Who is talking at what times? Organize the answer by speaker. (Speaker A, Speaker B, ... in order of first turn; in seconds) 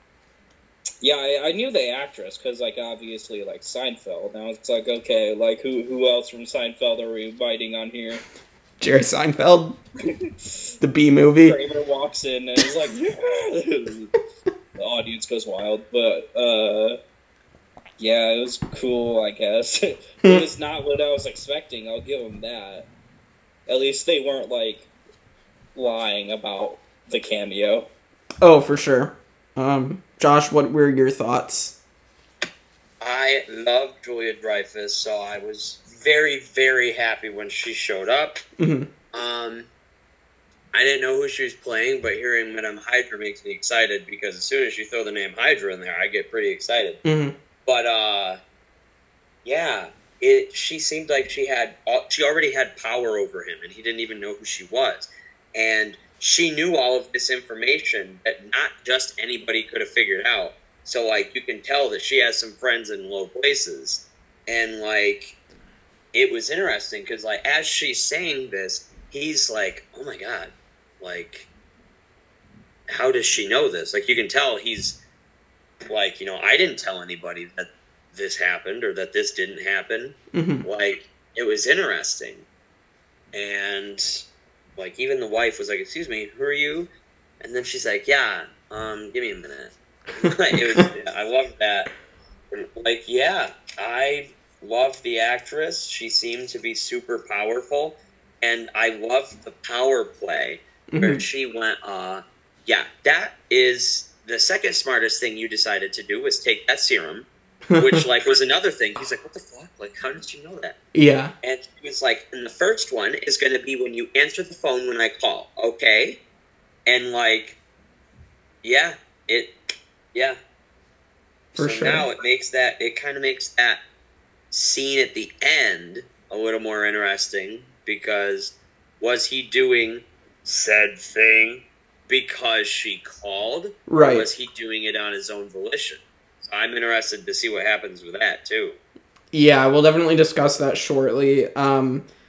Speaker A: 1.0-8.2, 10.1-10.5, 11.4-14.1, 14.8-17.0, 18.0-22.9, 23.7-24.9, 25.8-27.9
Speaker B: 8.8-9.8, 10.8-11.6, 28.4-31.8, 38.6-38.9, 47.0-47.4, 80.3-80.7, 90.5-90.8, 100.9-101.2, 107.7-108.0, 110.9-111.3, 121.5-122.1, 133.9-134.3, 139.3-142.1
Speaker C: 33.0-38.4, 39.1-39.7, 40.7-47.0, 47.6-48.4, 49.5-65.4, 66.1-71.5, 72.9-75.0, 75.8-82.5, 83.3-84.2, 84.8-86.9, 87.4-91.9, 92.5-107.3, 107.8-110.8, 111.4-116.2, 116.9-117.6, 118.6-119.5, 121.6-123.8, 124.5-138.8